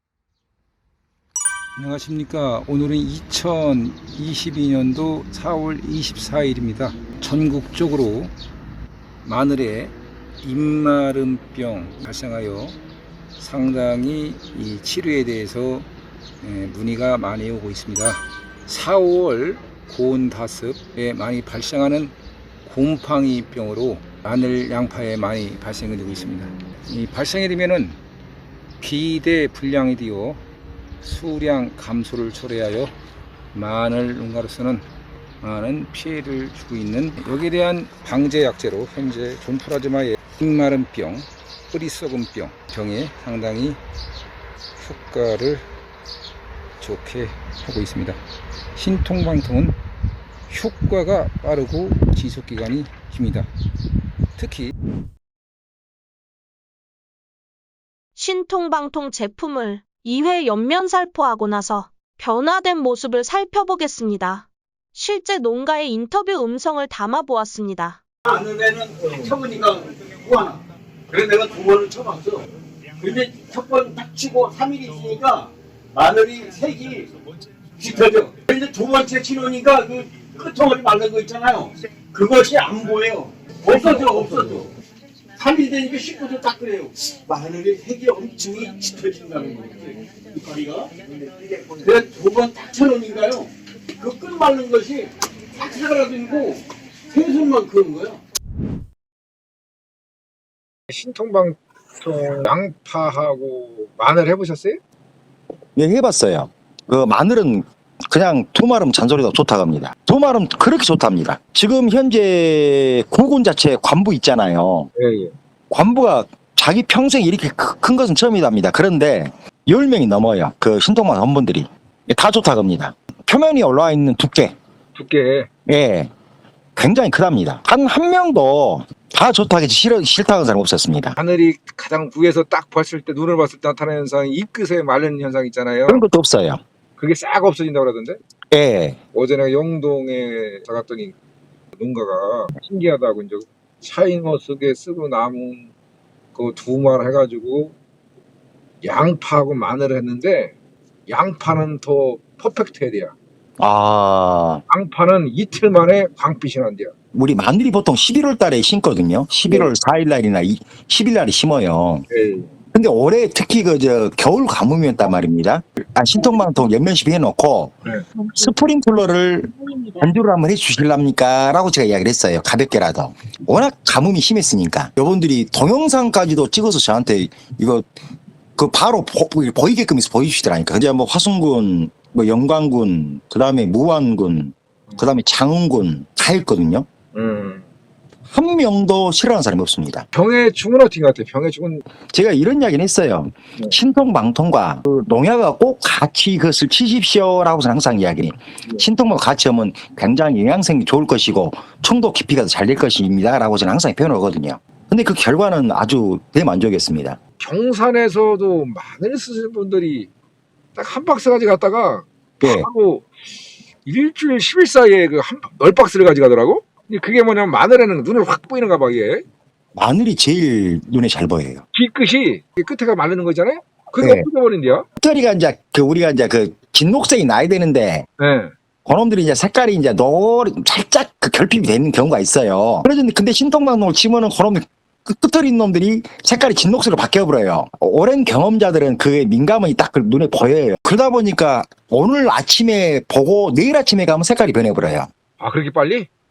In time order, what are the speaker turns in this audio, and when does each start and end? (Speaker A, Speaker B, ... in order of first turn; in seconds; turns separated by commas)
Speaker A: 1.8-8.3, Speaker A: 9.2-12.8, Speaker A: 13.4-15.9, Speaker A: 16.4-28.0, Speaker A: 28.8-30.4, Speaker A: 31.0-33.0, Speaker A: 33.5-34.9, Speaker A: 35.4-43.8, Speaker A: 44.8-45.7, Speaker A: 46.8-48.2, Speaker A: 48.8-49.8, Speaker A: 50.5-53.5, Speaker A: 54.4-54.7, Speaker B: 58.1-68.0, Speaker C: 68.3-72.5, Speaker C: 73.0-77.1, Speaker C: 77.8-84.7, Speaker C: 85.4-90.9, Speaker C: 91.7-98.2, Speaker D: 100.9-104.8, Speaker E: 105.8-114.9, Speaker D: 115.0-115.3, Speaker E: 115.7-124.5, Speaker D: 125.0-125.5, Speaker E: 125.7-126.1, Speaker E: 126.8-131.2, Speaker D: 131.2-136.0, Speaker E: 135.9-136.6, Speaker D: 137.0-138.2, Speaker E: 138.5-139.0, Speaker D: 139.1-141.2, Speaker D: 141.8-145.7, Speaker D: 146.3-147.8, Speaker D: 148.8-150.5, Speaker D: 151.1-153.1, Speaker E: 153.6-154.6, Speaker D: 154.7-156.9, Speaker E: 157.1-162.1, Speaker D: 162.1-162.5, Speaker E: 162.7-167.8, Speaker E: 168.3-177.9, Speaker E: 178.6-186.9, Speaker D: 187.1-187.7, Speaker E: 188.3-190.1, Speaker D: 190.1-191.8, Speaker E: 192.1-207.2, Speaker D: 207.4-210.1, Speaker D: 210.8-213.1, Speaker E: 212.4-212.7, Speaker D: 213.8-219.2, Speaker E: 219.8-221.6, Speaker D: 221.7-224.9, Speaker E: 224.0-224.3, Speaker E: 225.0-228.1, Speaker D: 228.2-228.5, Speaker E: 228.9-245.1, Speaker D: 245.4-246.1